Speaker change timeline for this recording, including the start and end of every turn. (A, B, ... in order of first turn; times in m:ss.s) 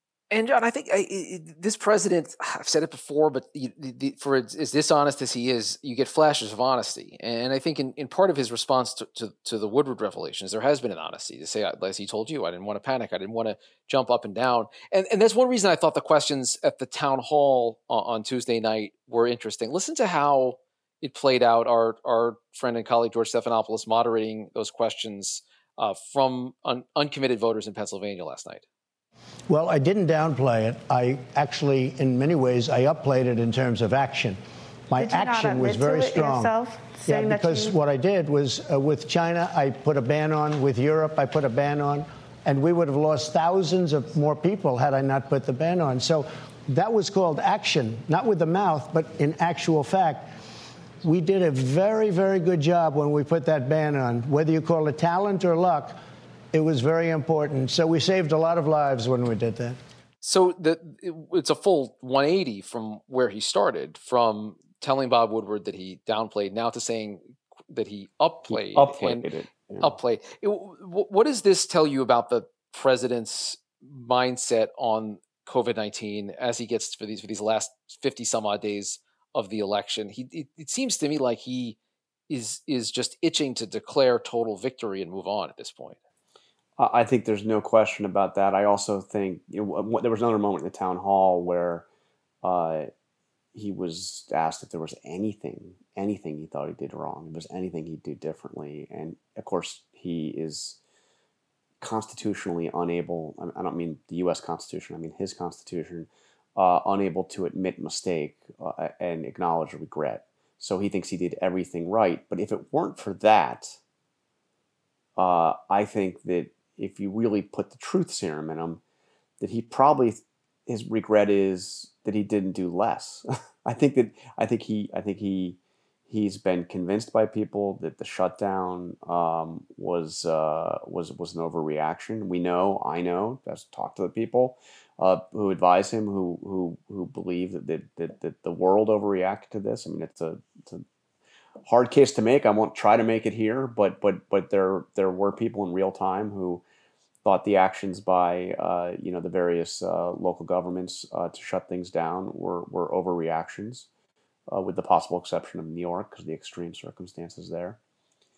0:00.3-0:28.6 A
0:29.5-0:34.4 B
0:34.9-0:36.5 B
0:35.0-0:37.8 C
0:37.1-0:50.3 B
0:51.0-0:56.0 B
0:56.5-0:59.8 B
1:00.2-1:09.3 A
1:08.5-1:09.9 D
1:09.8-1:21.8 A
1:22.3-1:26.0 A
1:26.8-1:31.8 D
1:32.4-1:32.9 D
1:33.5-1:40.8 D
1:41.8-1:53.8 D
1:55.2-1:58.8 D
1:59.4-2:20.8 D
2:21.6-2:26.6 D
2:27.2-2:33.9 D
2:34.5-2:37.8 D